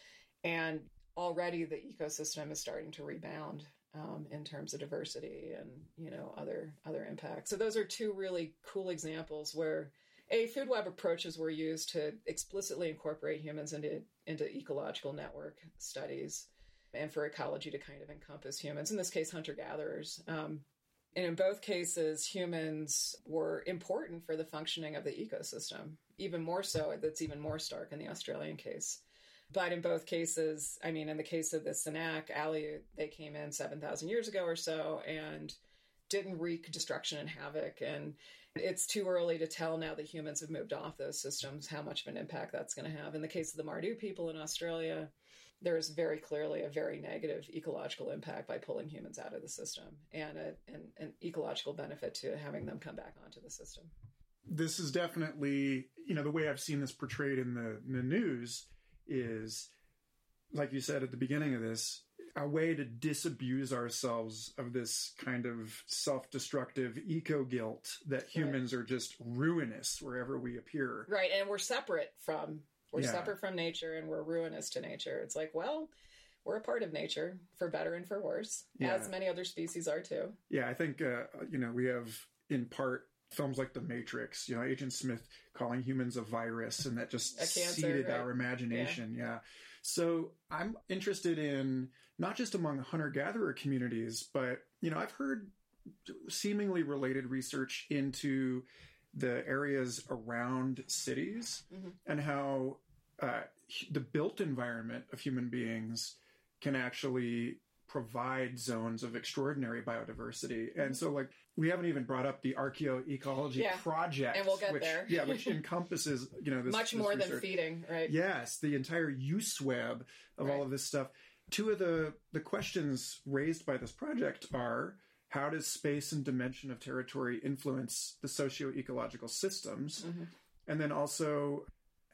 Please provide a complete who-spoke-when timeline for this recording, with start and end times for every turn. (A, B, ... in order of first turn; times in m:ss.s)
0:00.4-0:35.6 A
0:36.1-0:53.9 A
0:54.5-0:59.7 B
1:00.5-1:11.1 B
1:08.3-1:08.6 A
1:11.1-1:15.9 A
1:13.0-1:13.4 B
1:16.4-1:20.4 A
1:18.8-1:19.1 B
1:20.5-1:35.5 B
1:27.4-1:29.0 A
1:36.0-2:10.1 B
1:53.6-1:55.6 A
1:56.7-1:58.1 A
2:10.0-2:10.3 A
2:10.7-2:11.7 B